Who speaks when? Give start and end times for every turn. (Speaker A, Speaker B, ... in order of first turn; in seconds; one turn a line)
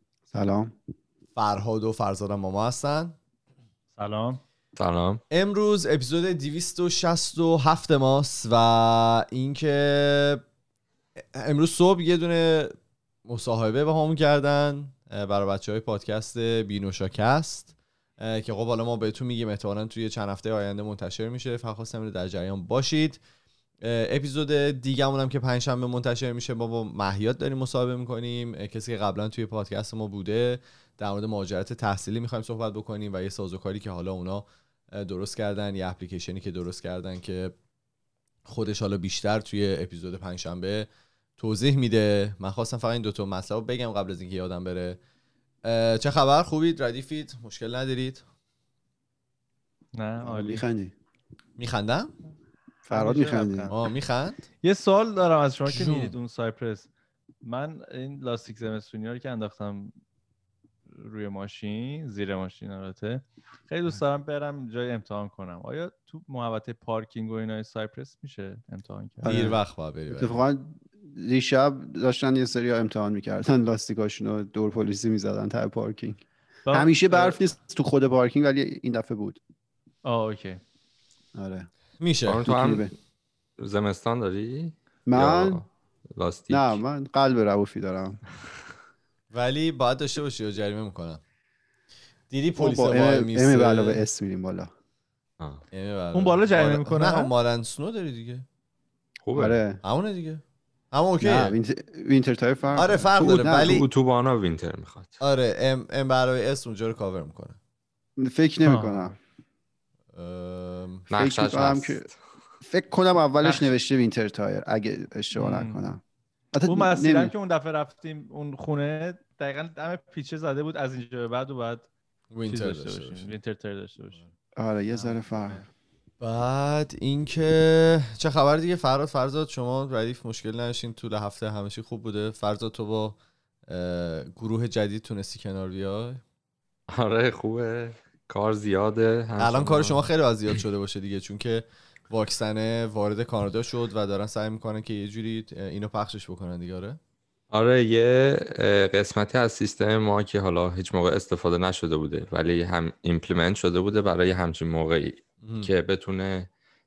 Speaker A: 0.3-0.7
Speaker B: 1.4-3.1
Speaker C: 4.0-4.4
Speaker D: 4.8-5.2
Speaker B: 5.3-10.4
Speaker B: 11.2-23.2
Speaker B: 23.8-37.5
Speaker B: 38.5-45.0
Speaker B: 45.6-48.2
Speaker C: 49.9-50.6
Speaker A: 50.2-50.9
Speaker B: 51.6-52.1
Speaker A: 52.9-53.7
Speaker C: 52.9-53.8
Speaker B: 53.7-54.4
Speaker C: 54.6-56.9
Speaker B: 55.6-56.1
Speaker C: 57.4-60.0
Speaker C: 60.9-69.3
Speaker A: 69.2-69.6
Speaker B: 69.2-70.4
Speaker A: 70.1-76.2
Speaker C: 76.7-77.4
Speaker A: 76.7-79.4
Speaker C: 80.0-80.6
Speaker A: 81.3-81.7
Speaker B: 82.0-82.5
Speaker D: 82.2-82.9
Speaker A: 82.4-82.9
Speaker D: 83.6-86.8
Speaker A: 85.1-85.6
Speaker A: 86.5-88.2
Speaker B: 89.3-91.2
Speaker B: 92.3-94.0
Speaker A: 92.5-94.7
Speaker B: 95.7-98.4
Speaker C: 96.1-97.3
Speaker D: 99.2-99.6
Speaker A: 99.3-99.8
Speaker B: 99.8-101.6
Speaker A: 101.2-103.8
Speaker B: 102.7-103.9
Speaker D: 103.3-105.2
Speaker B: 105.2-107.6
Speaker A: 108.2-109.1
Speaker C: 108.6-109.1
Speaker B: 110.1-111.0
Speaker D: 111.1-112.2
Speaker A: 111.2-112.0
Speaker A: 112.6-116.0
Speaker C: 113.4-113.7
Speaker C: 115.3-115.8
Speaker A: 116.5-117.3
Speaker C: 116.7-121.9
Speaker B: 122.3-123.3
Speaker C: 122.5-124.2
Speaker A: 124.6-125.6
Speaker C: 124.9-125.7
Speaker B: 126.2-136.2
Speaker D: 136.9-140.0
Speaker B: 139.4-147.0
Speaker D: 147.5-156.5
Speaker B: 155.4-155.7